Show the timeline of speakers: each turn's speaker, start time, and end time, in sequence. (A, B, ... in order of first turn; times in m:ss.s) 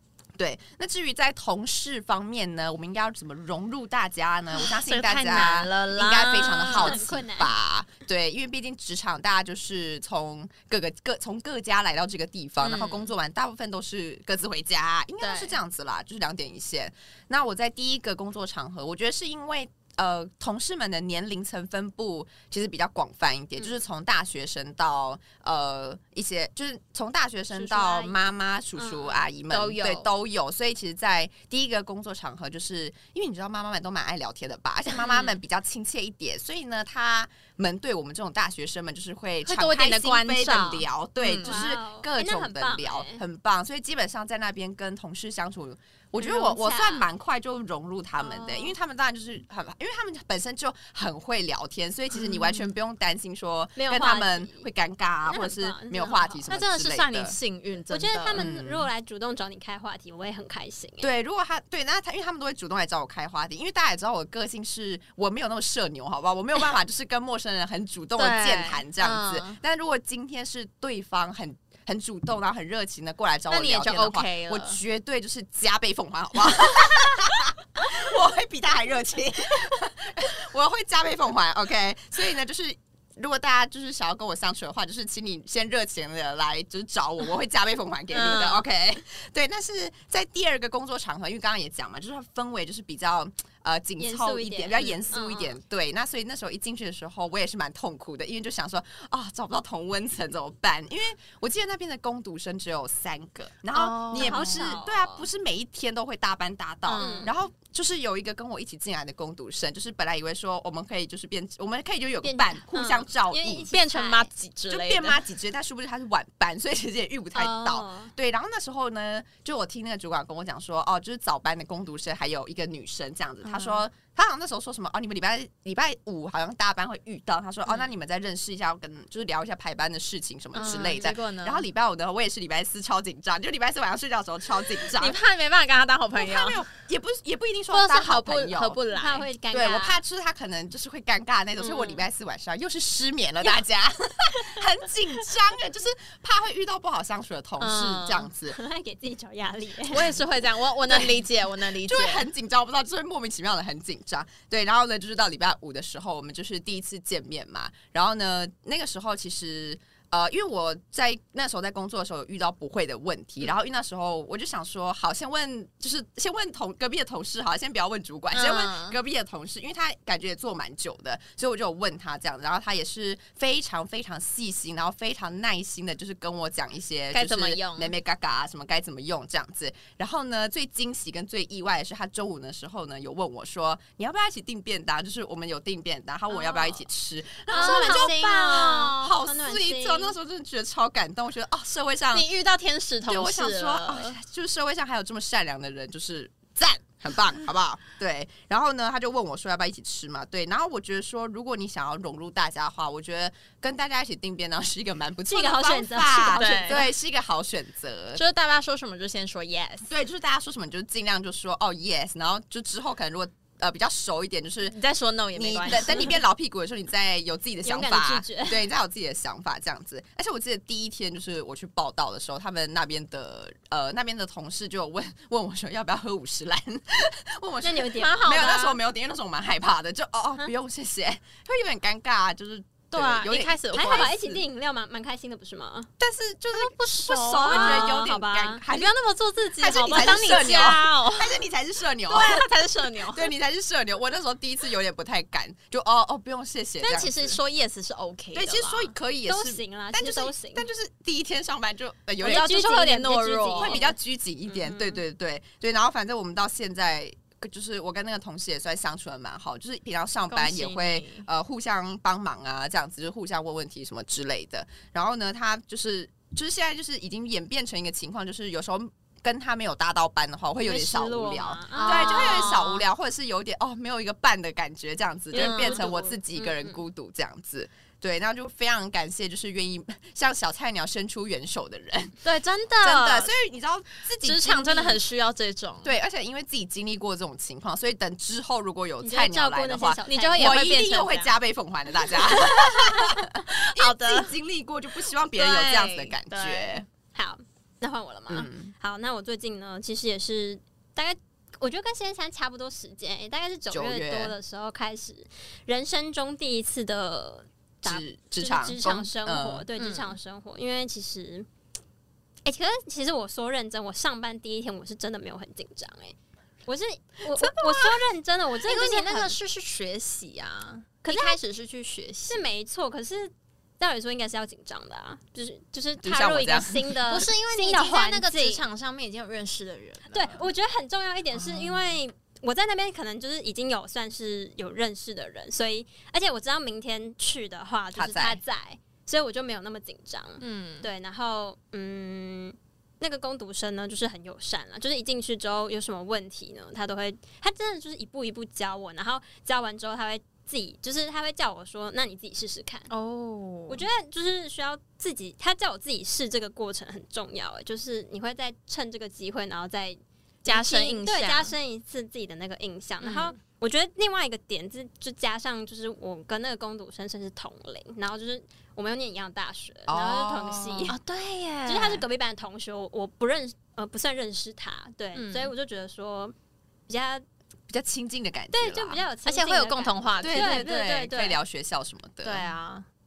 0:00.4-0:57.4 A
0:04.6-0:07.0 B
0:06.6-0:07.5 C
0:12.6-0:13.1 B
0:15.2-0:15.6 B
0:27.5-0:29.3 C
0:29.5-0:30.1 B
0:35.0-0:35.4 B
0:39.4-0:41.6 B
0:41.4-0:43.2 C
0:46.2-0:47.1 C
0:48.2-0:48.8 B
0:52.3-0:52.6 B
0:53.8-0:54.6 C
0:55.3-0:56.5 C
0:56.5-0:58.5 B
0:57.9-1:01.1 C
0:58.3-0:58.9 A
1:01.0-1:53.7 A
1:08.2-1:09.6 B
1:13.5-1:14.8 B
1:28.1-1:28.6 B
1:34.0-1:35.6 C
1:43.7-1:44.8 B
1:44.2-1:45.2 C
1:46.9-1:47.3 B
1:47.0-1:47.3 C
1:52.2-1:54.3 C
1:53.7-1:55.2 B
1:54.7-2:15.2 A
1:57.4-1:58.1 C
2:03.4-2:03.8 B
2:10.5-2:11.7 B
2:14.9-2:16.6 B
2:16.2-2:18.8 A
2:17.7-2:19.3 B
2:19.0-2:20.0 C
2:19.5-2:28.6 A
2:21.6-2:22.0 C
2:27.6-2:28.3 B
2:28.5-2:30.2 C
2:29.8-2:32.3 B
2:30.9-2:31.2 A
2:31.8-3:12.3 A
2:48.3-2:49.0 B
2:57.1-2:57.9 B
3:06.4-3:06.6 C
3:07.5-3:09.1 B
3:07.5-3:10.2 C
3:12.1-3:14.2 B
3:13.1-3:28.2 A
3:25.3-3:26.9 C
3:26.3-3:26.9 B
3:28.2-3:29.9 B
3:29.9-3:34.8 A
3:34.7-3:36.2 B
3:35.3-3:54.4 A
3:37.6-3:38.7 C
3:47.6-3:48.4 C
3:48.0-3:48.8 B
3:52.9-3:54.2 B
3:53.7-3:55.9 C
3:56.0-3:58.9 A
3:56.5-3:58.1 B
3:57.5-3:58.6 C
3:58.7-4:01.4 B
3:59.6-4:02.5 A
4:02.1-4:03.3 B
4:03.0-4:07.4 A
4:06.8-4:08.9 B
4:08.3-4:12.8 A
4:09.3-4:10.7 C
4:12.2-4:13.8 B
4:12.2-4:15.0 C
4:13.6-4:42.2 A
4:20.3-4:21.3 B
4:30.6-4:32.6 C
4:31.7-4:32.9 B
4:35.3-4:36.8 C
4:35.3-4:35.9 B
4:42.2-4:43.3 B
4:42.8-4:45.0 A
4:44.2-4:45.9 B
4:45.8-4:56.9 A
4:49.0-4:50.7 C
4:50.1-4:51.4 B
4:52.1-4:54.3 B
4:55.4-4:56.8 B
4:57.1-5:11.5 C
4:58.3-4:58.7 A
5:03.7-5:04.4 A
5:07.8-5:09.6 A
5:09.8-5:10.2 B
5:12.4-5:16.2 C
5:16.7-5:19.4 C
5:17.4-5:18.0 B
5:18.6-5:22.4 B
5:21.0-5:21.4 C
5:22.3-5:28.6 C
5:26.0-5:27.0 A
5:27.1-5:30.5 B
5:30.1-5:52.9 C
5:31.4-5:31.8 A
5:38.0-5:38.4 A
5:40.4-5:40.9 B
5:52.9-5:53.9 B
5:53.7-6:11.0 C
6:00.4-6:01.5 B
6:03.0-6:03.4 B
6:09.9-6:10.9 A
6:10.9-6:12.0 B
6:11.7-6:16.3 C
6:15.2-6:15.5 B
6:16.9-6:17.2 C
6:17.7-6:19.0 A
6:18.5-6:21.4 C
6:19.2-6:20.7 B
6:20.2-6:22.5 A
6:22.2-6:22.9 B